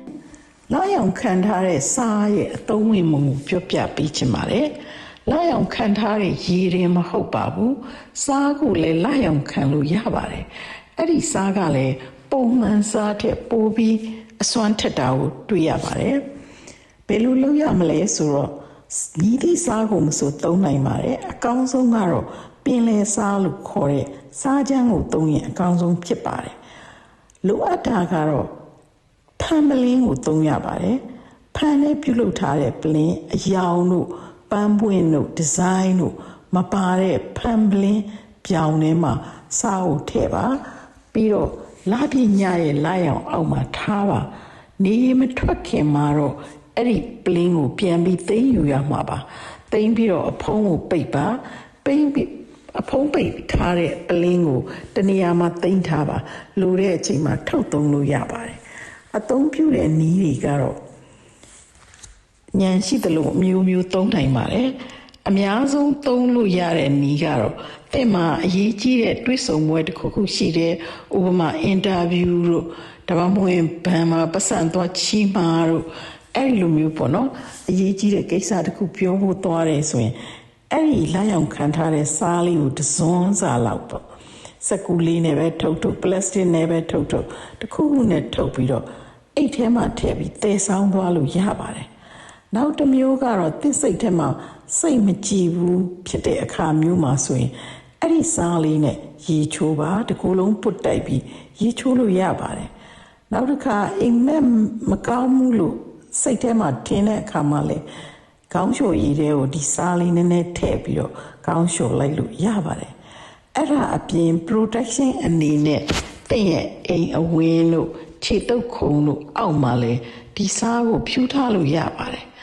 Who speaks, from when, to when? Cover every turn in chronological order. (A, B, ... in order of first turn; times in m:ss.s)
0:00.7-0:04.7 A
0:05.3-0:16.2 A
0:17.1-0:26.5 A
0:27.4-0:28.5 A
0:29.4-0:31.0 A
0:31.5-0:58.6 A
0:59.1-1:00.8 A
1:02.5-1:20.2 A
1:20.7-1:24.0 A
1:24.6-1:31.9 A
1:32.5-1:42.7 A
1:43.3-1:47.8 A
1:48.5-1:52.9 A
1:53.5-2:02.2 A